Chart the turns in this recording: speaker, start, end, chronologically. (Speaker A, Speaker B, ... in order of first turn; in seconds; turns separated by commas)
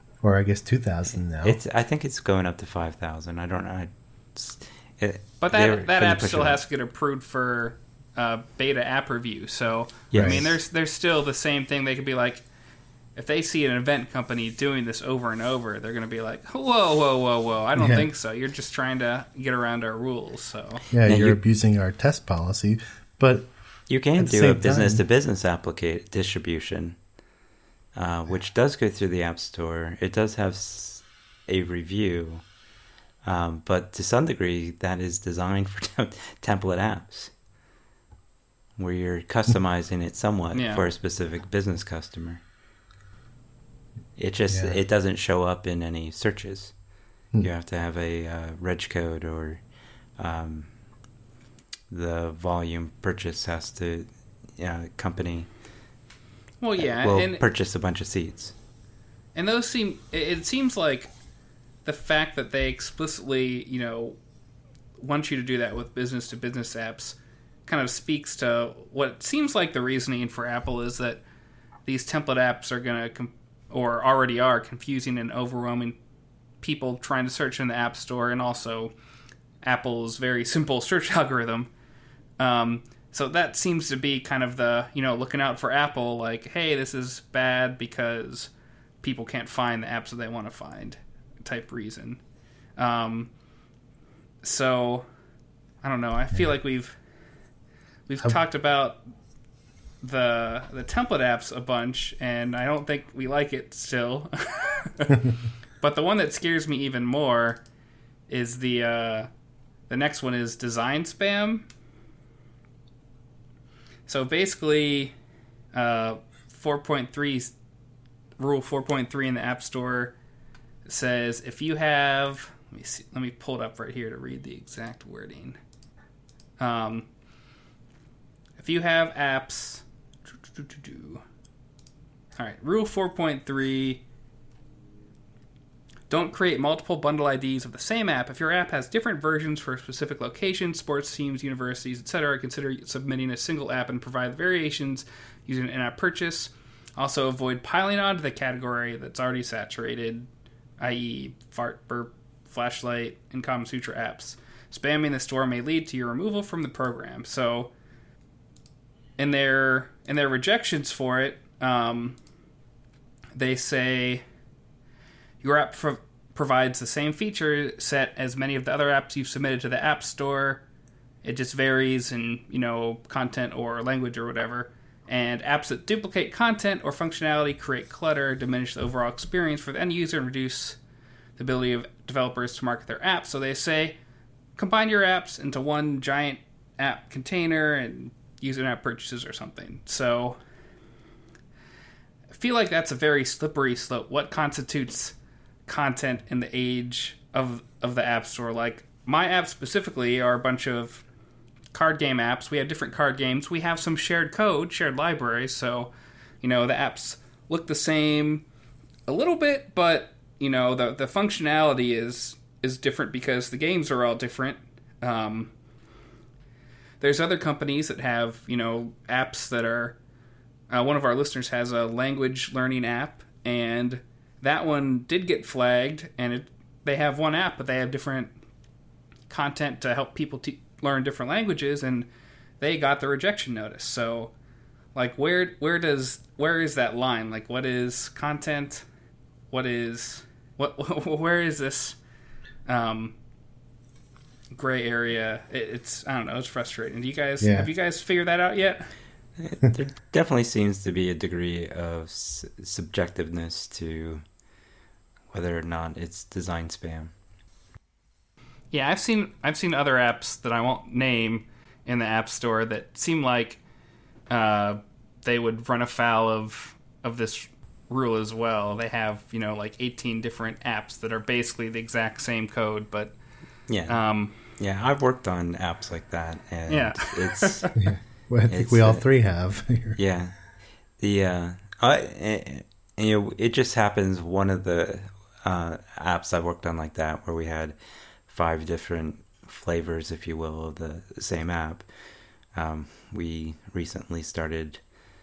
Speaker A: 0.2-1.6, Speaker B: 1.4-6.6, Speaker C: 5.4-12.4, Speaker B: 10.1-10.6, Speaker A: 10.1-10.4, Speaker C: 13.2-20.8, Speaker A: 17.8-18.1, Speaker A: 20.9-23.5, Speaker B: 21.1-21.4, Speaker B: 23.9-27.0, Speaker A: 24.2-25.0, Speaker B: 27.9-32.4, Speaker B: 33.2-37.3, Speaker B: 38.8-42.4, Speaker C: 40.5-40.8, Speaker B: 44.1-46.7, Speaker A: 44.5-44.8, Speaker B: 47.4-49.6, Speaker B: 50.2-50.7, Speaker B: 51.9-55.5, Speaker C: 56.6-57.4, Speaker B: 56.8-58.5, Speaker C: 59.3-61.1, Speaker C: 61.8-64.2, Speaker C: 65.0-71.2, Speaker C: 71.8-76.0, Speaker C: 76.6-78.9, Speaker C: 79.6-81.7, Speaker C: 82.4-88.5, Speaker C: 89.0-92.2, Speaker C: 92.8-93.3, Speaker C: 94.4-95.0, Speaker C: 95.8-97.0, Speaker C: 98.1-99.0, Speaker C: 100.0-105.2, Speaker C: 105.8-107.6, Speaker C: 108.3-109.3, Speaker C: 109.9-111.7, Speaker C: 114.1-115.1, Speaker C: 115.7-117.5, Speaker C: 118.4-120.1, Speaker C: 120.8-125.6, Speaker C: 126.6-127.1, Speaker C: 128.6-129.8, Speaker C: 130.4-131.2, Speaker C: 132.3-134.0, Speaker C: 136.1-150.3, Speaker C: 150.8-157.7, Speaker C: 159.2-162.2, Speaker C: 163.3-164.2, Speaker C: 165.4-170.6, Speaker C: 171.2-180.8, Speaker C: 181.4-184.0, Speaker C: 184.6-190.4, Speaker C: 192.3-195.1, Speaker C: 195.7-201.0, Speaker C: 201.7-205.9, Speaker C: 206.4-208.4, Speaker C: 209.1-215.5, Speaker C: 217.0-220.0, Speaker C: 220.7-228.3, Speaker C: 229.3-232.1, Speaker C: 232.6-234.3, Speaker C: 234.9-238.8, Speaker C: 239.5-242.0, Speaker C: 242.7-243.2, Speaker C: 244.5-248.9, Speaker A: 247.4-247.7, Speaker B: 249.4-254.2, Speaker B: 255.3-257.1, Speaker C: 258.7-263.6, Speaker C: 264.3-273.1, Speaker B: 273.7-277.7, Speaker C: 273.9-274.3, Speaker C: 276.7-277.7, Speaker A: 277.7-280.0, Speaker B: 278.5-279.0, Speaker B: 279.9-280.4, Speaker B: 281.0-291.8, Speaker B: 292.5-294.8